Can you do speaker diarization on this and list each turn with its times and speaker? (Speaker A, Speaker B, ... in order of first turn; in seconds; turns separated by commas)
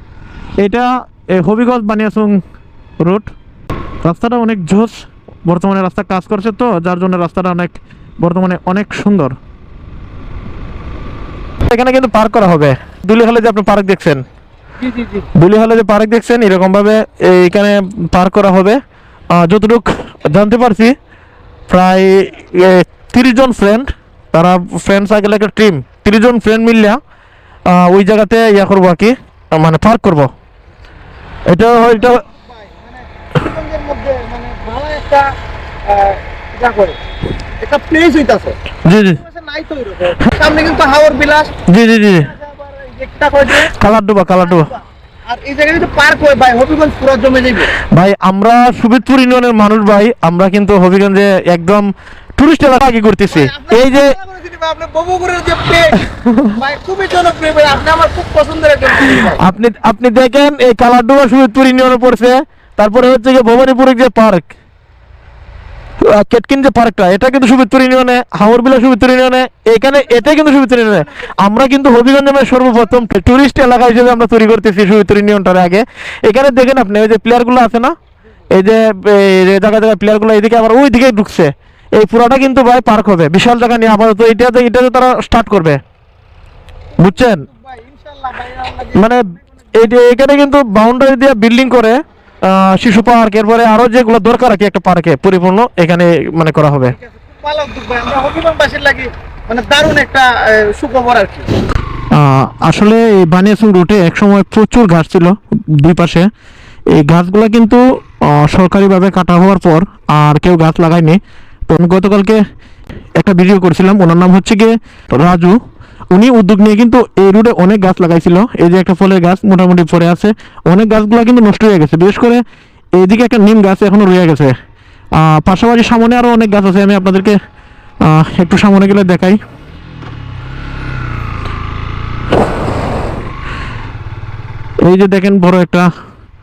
Speaker A: 0.6-2.4, Speaker A: 3.0-3.3, Speaker A: 4.0-9.3, Speaker A: 11.7-14.2, Speaker B: 14.8-15.3, Speaker A: 15.3-18.8, Speaker A: 19.3-20.9, Speaker A: 21.7-27.0, Speaker A: 27.7-30.3, Speaker A: 31.5-32.2, Speaker B: 31.8-35.3, Speaker B: 35.8-37.0, Speaker B: 37.6-41.6, Speaker A: 38.8-39.2, Speaker A: 41.7-42.3, Speaker B: 42.1-43.7, Speaker A: 43.6-44.7, Speaker B: 44.4-47.7, Speaker A: 47.9-54.1, Speaker B: 53.3-59.4, Speaker A: 59.1-64.5, Speaker A: 66.0-77.9, Speaker B: 70.1-71.2, Speaker A: 78.5-85.8, Speaker B: 87.0-89.2, Speaker A: 87.0-87.4, Speaker A: 88.9-97.0, Speaker B: 97.0-101.5, Speaker A: 102.1-106.3, Speaker A: 106.9-112.4, Speaker A: 113.2-115.5, Speaker A: 116.1-122.4, Speaker A: 123.0-124.5, Speaker A: 125.2-127.3, Speaker A: 128.0-129.4, Speaker A: 134.8-135.9